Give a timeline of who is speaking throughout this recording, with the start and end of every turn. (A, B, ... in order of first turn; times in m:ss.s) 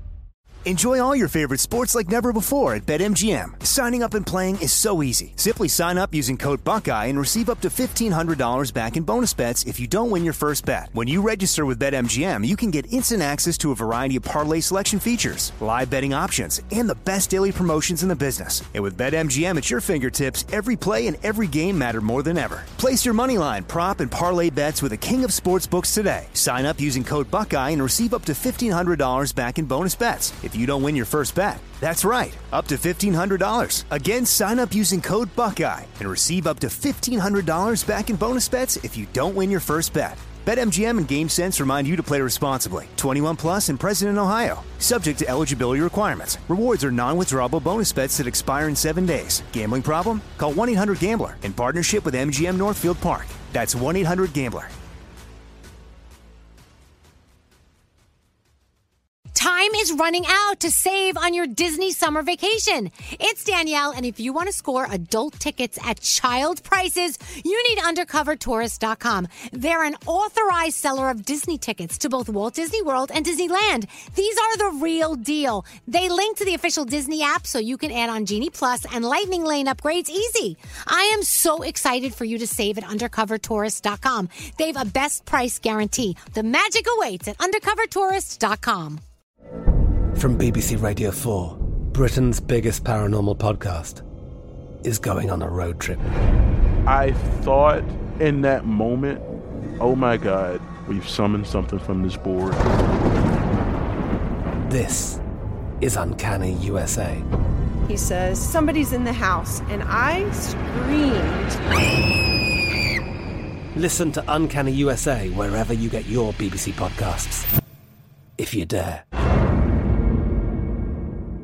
0:00.7-0:54.7 A
0:59.4-1:29.0 B
1:30.2-1:34.0 C
1:34.8-1:36.0 C
1:36.9-1:39.2 D
1:39.8-1:42.6 D
1:44.6-1:45.2 C
1:45.8-1:47.2 C
1:48.0-1:51.4 E
1:53.8-1:57.4 C
1:58.4-1:59.0 C